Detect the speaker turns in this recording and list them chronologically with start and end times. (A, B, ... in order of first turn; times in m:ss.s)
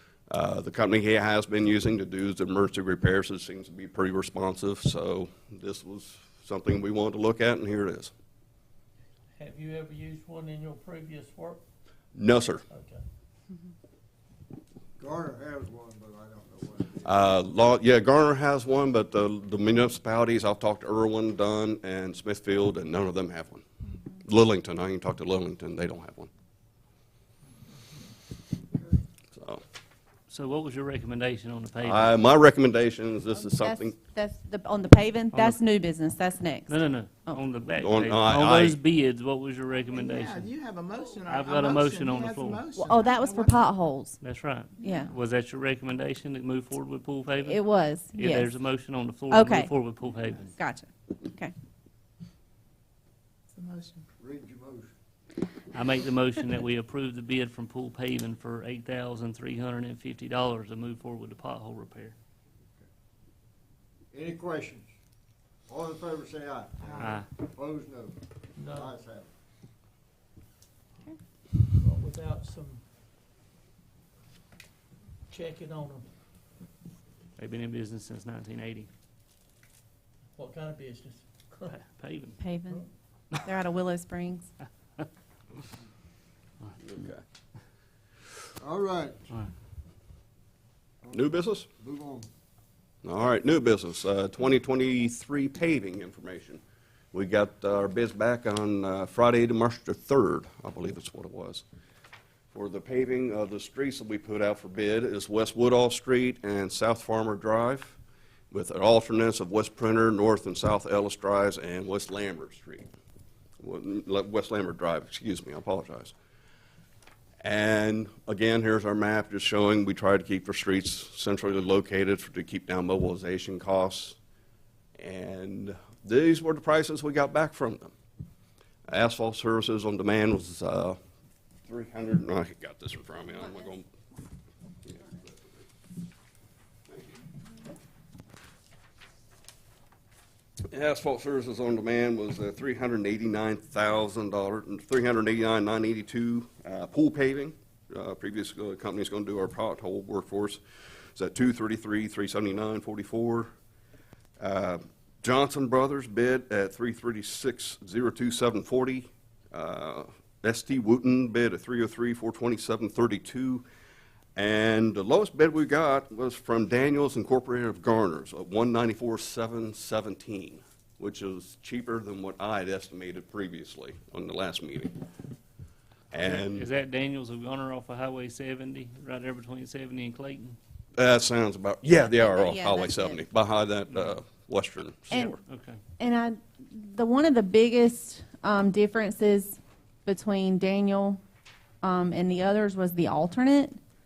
0:00.3-0:08.1 A
0:09.4-0:11.6 B
0:12.2-0:12.6 A
0:12.7-0:13.0 B
0:15.0-0:17.2 C
0:17.0-0:23.6 A
0:24.2-0:26.3 A
0:29.4-0:29.6 A
0:30.3-0:32.2 D
0:31.8-0:34.0 A
0:33.4-0:37.4 E
0:35.3-0:35.6 D
0:36.7-0:40.5 D
0:37.8-0:38.8 A
0:39.9-0:43.6 F
0:41.3-0:42.6 D
0:42.7-0:44.2 E
0:44.2-0:47.6 D
0:44.8-0:45.1 E
0:47.4-0:48.5 E
0:48.1-0:50.5 D
0:49.3-0:49.7 E
0:50.6-0:51.5 E
0:53.6-0:54.0 F
0:54.2-0:54.9 C
0:55.7-1:02.1 D
1:04.1-1:04.9 C
1:05.7-1:08.2 C
1:07.0-1:07.3 D
1:08.6-1:08.9 B
1:08.7-1:09.3 C
1:11.7-1:12.8 B
1:15.3-1:16.0 B
1:17.4-1:18.9 D
1:20.3-1:21.8 B
1:21.7-1:22.4 D
1:22.4-1:22.8 E
1:23.4-1:24.5 E
1:26.9-1:27.2 A
1:28.6-1:29.2 C
1:31.0-1:32.3 C
1:31.1-1:31.7 A
1:33.0-1:36.6 A
1:37.1-1:41.6 A
1:42.5-1:48.0 A
1:48.5-1:52.9 A
1:53.6-1:56.1 A
1:57.4-2:04.2 A
2:05.0-2:07.9 A
2:08.9-2:11.0 A
2:11.6-2:13.9 A
2:14.8-2:15.3 A
2:20.7-2:30.6 A
2:31.1-2:33.5 A
2:34.4-2:43.6 A
2:44.4-2:55.0 A
2:56.1-2:56.7 A
2:56.1-3:00.6 D
3:01.0-3:05.4 A
3:01.9-3:03.2 E
3:05.1-3:05.4 E
3:05.4-3:05.8 D
3:06.0-3:11.2 E
3:11.8-3:13.8 E